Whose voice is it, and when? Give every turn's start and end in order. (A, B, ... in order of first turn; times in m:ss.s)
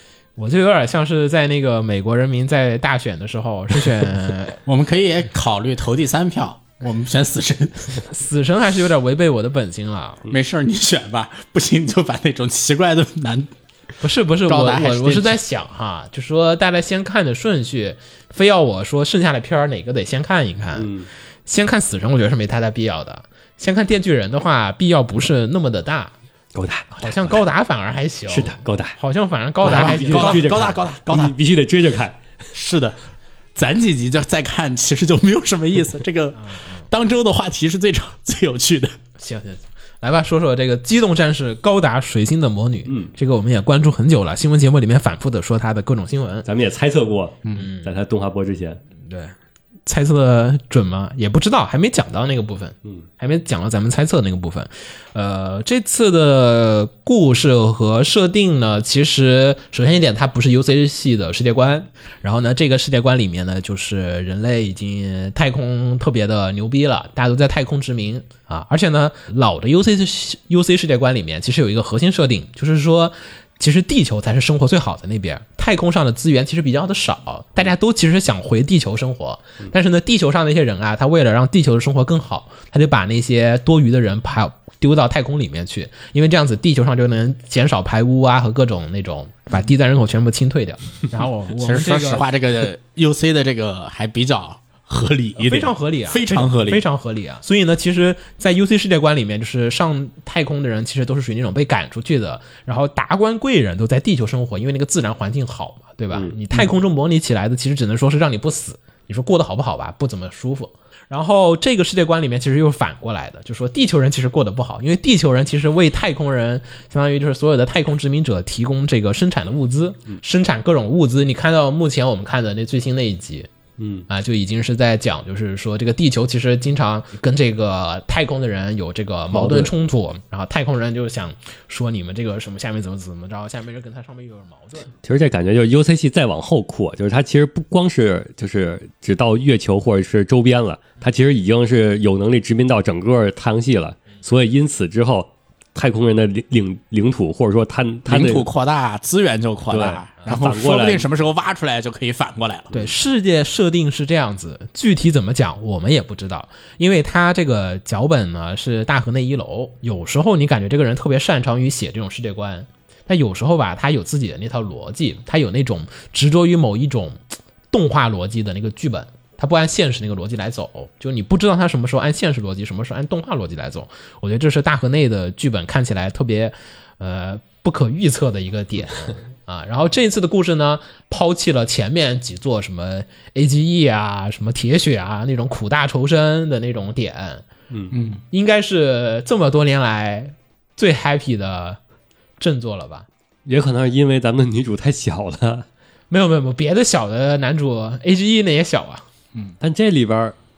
0:00.4-0:04.6 A
0:04.6-0:08.0 B
0:08.1-0:10.2 A
0:10.3-0:13.5 B
0:14.0-0:20.9 A
0:14.4-0:15.4 B
0:20.7-0:21.1 C
0:21.4-0:26.1 A
0:26.5-0:27.4 C
0:27.0-0:30.6 A
0:28.3-0:29.0 C
0:29.6-0:31.4 B
0:29.6-0:32.2 C
0:32.5-0:33.0 B
0:33.6-0:38.9 B
0:36.4-0:36.9 A
0:39.2-0:46.5 A
0:46.4-0:48.8 C
0:47.5-0:47.9 A
0:49.0-0:49.3 A
0:49.8-1:32.2 A
1:31.5-1:36.8 B
1:35.4-2:03.5 A
2:03.8-2:04.1 C
2:04.1-2:14.9 A
2:09.3-2:09.7 C
2:15.0-2:28.5 C
2:28.1-2:32.8 B
2:29.7-2:31.0 C
2:32.7-2:47.2 A
2:47.7-3:07.4 A
3:07.9-3:08.2 B
3:08.3-3:11.8 A
3:12.4-3:13.0 A
3:13.4-3:15.6 C
3:16.1-3:19.0 A
3:19.6-3:20.3 C